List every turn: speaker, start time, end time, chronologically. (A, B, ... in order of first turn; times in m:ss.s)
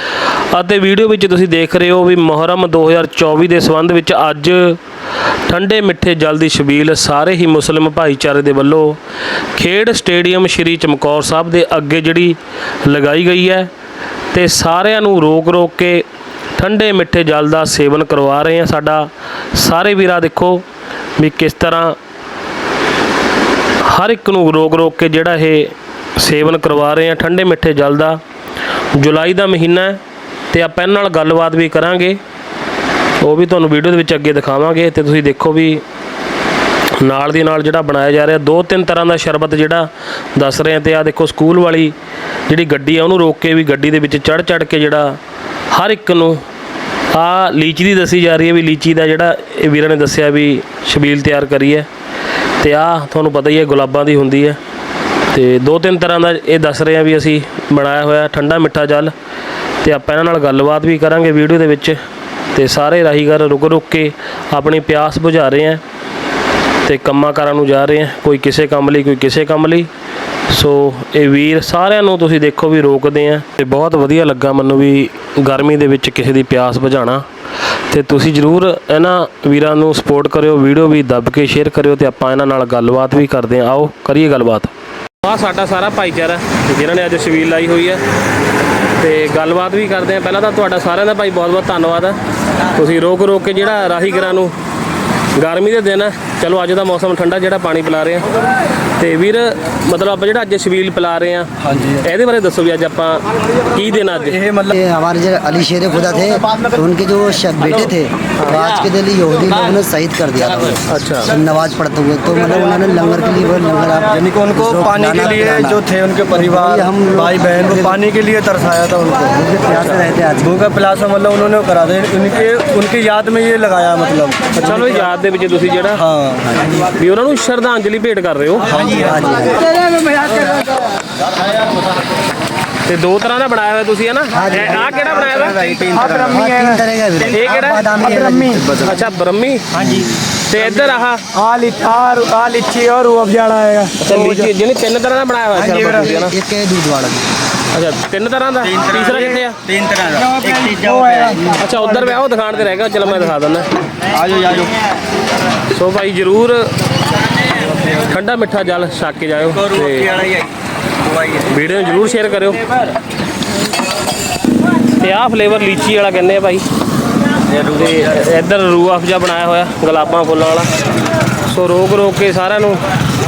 0:00.5-0:04.8 A
0:05.5-0:09.0 A
0:09.5-0:13.7 A
0:14.3-0:20.6 A
0:21.2-0:22.0 A
0:23.8-0:28.2 A
0:28.9-0:30.0 A
0:30.5-0:32.2 A
0:33.2-0:35.8 A
0:37.0-0:41.9 A
0:42.5-0:45.2 A
0:45.7-0:46.4 A
0:47.1-0:51.9 A
0:52.6-0:54.6 A
0:55.3-0:59.1 A
0:59.8-1:02.0 A
1:02.5-1:05.8 A
1:06.8-1:09.9 A
1:10.5-1:17.2 A
1:17.9-1:28.0 A
1:29.0-1:34.5 A
1:35.3-1:38.2 A
1:39.0-1:44.4 A
1:41.6-1:42.0 B
1:44.3-1:44.7 B
1:44.7-1:55.8 C
1:50.9-1:51.3 A
1:54.1-1:59.3 B
1:56.3-1:58.0 C
1:59.2-2:00.6 C
2:00.4-2:04.5 B
2:04.5-2:06.0 A
2:06.0-2:06.5 B
2:06.8-2:08.9 A
2:08.7-2:09.2 B
2:08.8-2:09.7 C
2:09.7-2:10.8 D
2:12.8-2:15.7 A
2:14.3-2:15.0 C
2:15.3-2:16.4 B
2:15.9-2:16.8 D
2:16.2-2:19.0 C
2:17.3-2:17.8 A
2:18.0-2:18.6 D
2:18.8-2:19.7 A
2:19.8-2:20.1 C
2:20.5-2:21.3 A
2:21.3-2:24.5 D
2:24.0-2:26.3 A
2:25.6-2:27.2 C
2:27.7-2:29.7 A
2:29.9-2:30.4 B
2:30.4-2:31.3 D
2:31.4-2:33.7 A
2:34.1-2:34.7 B
2:35.7-2:36.7 A
2:37.5-2:40.2 A
2:41.3-2:42.7 A
2:45.0-2:46.6 A
2:47.5-2:50.7 A
2:51.4-2:52.8 A